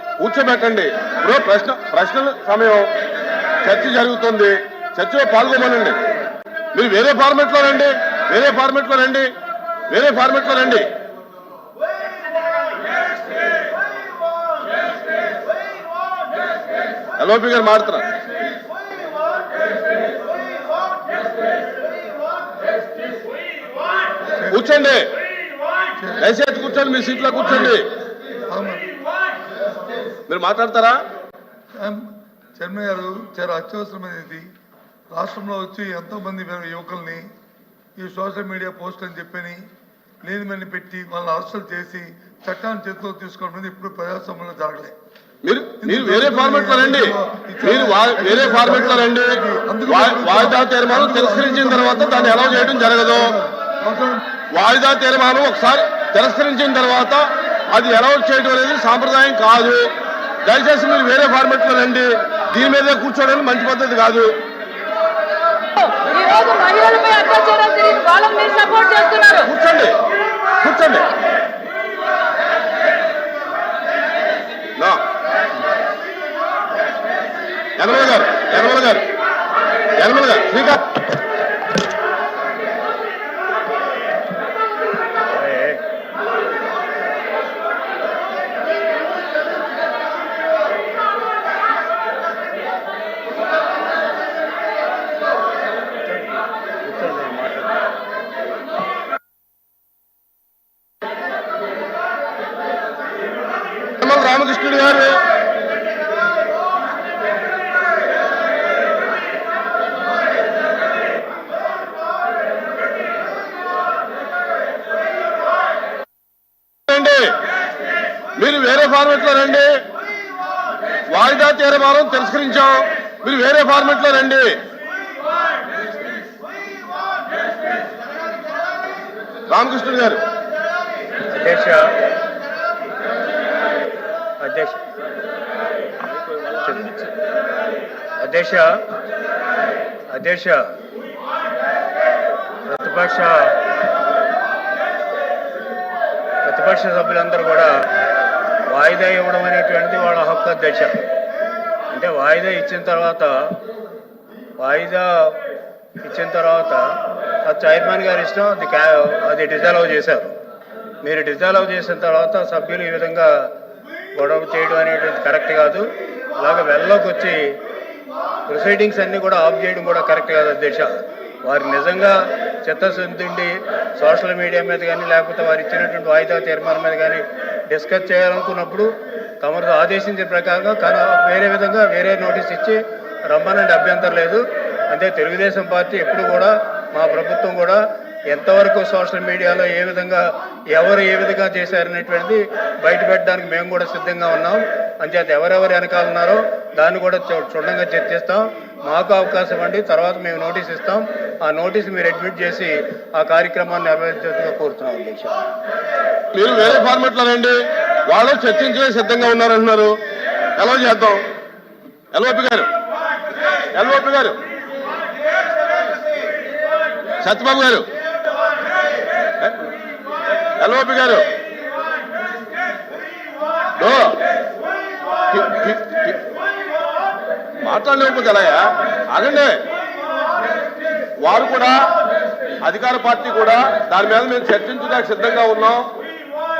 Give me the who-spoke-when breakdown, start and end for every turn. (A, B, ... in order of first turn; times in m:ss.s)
0:00.2-0:02.9 A
0:03.6-0:06.0 A
0:06.7-0:09.3 A
0:09.9-0:10.9 A
0:17.2-0:18.0 A
0:24.5-0:25.1 A
0:26.0-0:26.2 B
0:26.2-0:27.9 A
0:28.5-0:28.9 B
0:30.3-0:31.0 A
0:31.8-0:34.5 B
0:35.1-0:37.3 B
0:38.0-0:39.6 B
0:40.2-0:45.0 B
0:45.4-0:53.4 A
0:45.8-0:54.2 B
0:54.5-0:59.9 A
1:00.4-1:04.4 A
1:05.7-1:09.5 C
1:09.4-1:10.0 A
1:10.6-1:11.1 A
1:14.8-1:15.0 A
1:17.8-1:19.0 A
1:19.9-1:20.8 A
1:25.3-1:25.8 D
1:36.1-1:37.7 D
1:44.0-1:45.2 A
1:56.9-1:57.4 A
1:58.4-1:59.8 A
2:01.1-2:04.6 A
2:09.5-2:10.2 A
2:11.3-2:11.9 D
2:14.4-2:14.8 D
2:16.5-2:17.0 D
2:18.2-2:18.8 D
2:20.1-2:20.7 D
2:22.7-2:23.6 D
2:26.4-2:27.8 D
2:28.6-2:31.0 D
2:31.9-2:33.6 D
2:34.6-2:35.4 D
2:36.0-2:40.3 D
2:41.0-2:43.5 D
2:44.1-2:47.6 D
2:48.5-3:25.3 D
3:26.3-3:30.0 A
3:30.6-3:31.2 A
3:32.1-3:32.7 A
3:33.7-3:34.4 A
3:37.2-3:37.9 A
3:40.6-3:41.3 A
3:43.8-3:44.2 A
3:45.3-3:46.2 A
3:47.6-3:49.6 A
3:51.2-3:51.9 A
3:52.6-3:55.9 A